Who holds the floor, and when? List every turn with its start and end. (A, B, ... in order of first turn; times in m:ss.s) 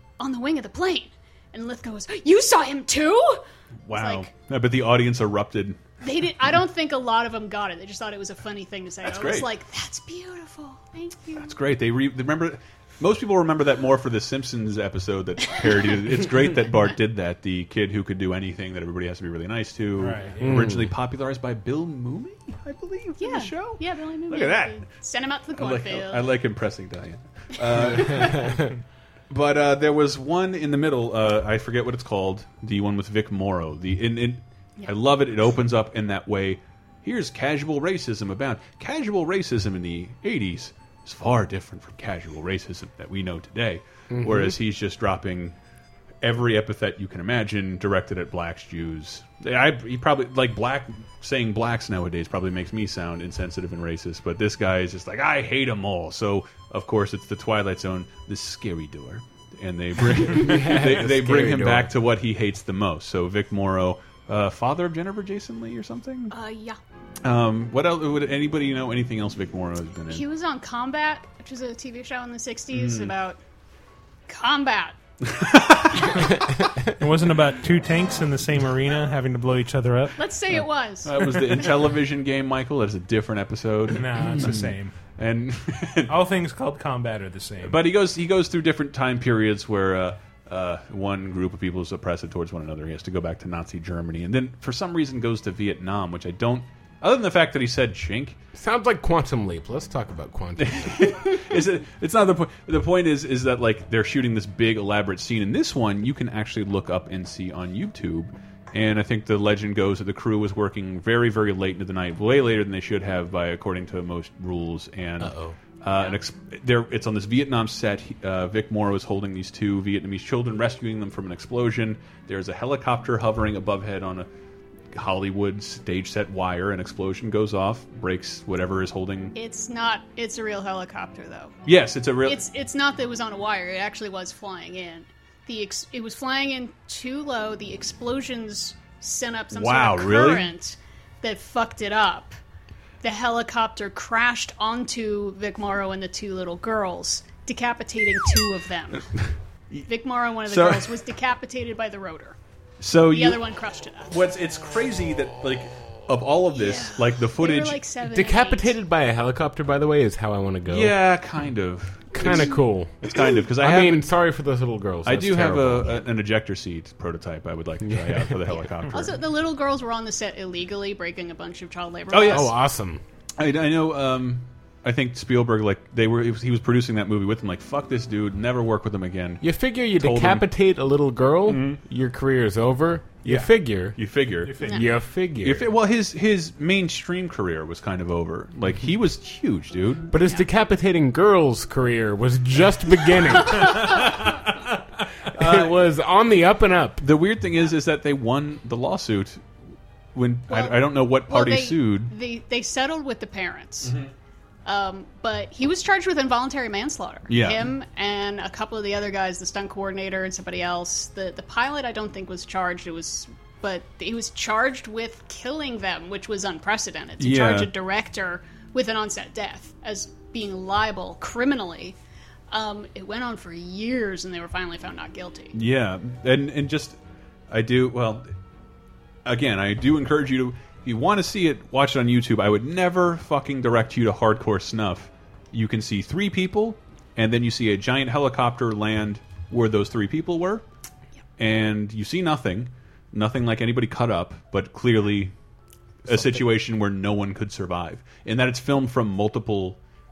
0:00.2-0:04.3 A
0:03.9-0:05.8 B
0:06.0-0:11.5 A
0:09.0-0:09.5 B
0:11.4-0:24.9 B
0:20.0-0:20.4 C
0:20.4-0:20.9 D
0:23.2-0:26.3 A
0:25.6-0:28.7 B
0:27.6-0:28.6 A
0:28.2-0:28.7 D
0:29.3-0:45.6 B
0:44.1-0:44.6 D
0:46.2-1:06.3 B
1:00.1-1:02.0 D
1:06.3-1:06.8 A
1:07.2-1:10.2 B
1:10.1-1:13.4 A
1:12.7-1:13.1 B
1:14.3-1:15.0 A
1:15.2-1:16.3 B
1:16.2-1:20.2 C
1:20.2-1:21.7 A
1:21.0-1:26.1 B
1:23.9-1:24.9 C
1:26.1-1:27.8 C
1:27.6-1:38.4 B
1:38.5-1:41.2 D
1:40.6-2:04.3 B
1:55.2-1:55.6 D
2:04.9-2:09.3 B
2:09.4-2:11.5 A
2:11.7-2:12.4 B
2:12.2-2:22.4 A
2:19.5-2:20.5 B
2:23.0-2:29.1 A
2:29.9-2:32.4 A
2:30.4-2:31.0 B
2:32.8-2:33.4 B
2:33.1-2:34.1 A
2:34.1-2:37.8 B
2:36.5-2:38.7 A
2:38.1-2:41.0 D
2:40.7-2:44.1 B
2:42.1-2:46.1 D
2:42.2-2:42.6 A
2:45.0-2:49.2 B
2:47.8-2:48.7 D
2:48.8-2:52.6 A
2:52.1-2:52.5 B
2:52.3-2:53.0 D
2:53.4-2:59.4 B
2:59.4-3:04.0 D
2:59.9-3:00.5 B
3:01.5-3:01.8 B
3:03.3-3:04.5 B
3:04.4-3:04.9 C
3:04.6-3:04.8 A
3:04.6-3:05.7 D
3:05.4-3:10.1 B
3:10.1-3:14.1 D
3:13.4-3:14.1 A
3:13.6-3:14.4 B
3:15.2-3:15.8 B
3:15.3-3:17.0 D
3:17.0-3:19.4 B
3:20.2-3:22.1 B
3:20.5-3:24.0 A
3:23.8-3:24.1 B
3:24.6-3:42.0 A
3:27.3-3:27.7 B
3:37.2-3:37.7 B
3:42.5-3:45.6 A
3:45.6-3:47.0 B
3:47.5-3:48.3 B
3:49.2-4:00.6 B
4:01.4-4:05.3 B
4:06.0-4:06.5 D
4:06.1-4:09.8 B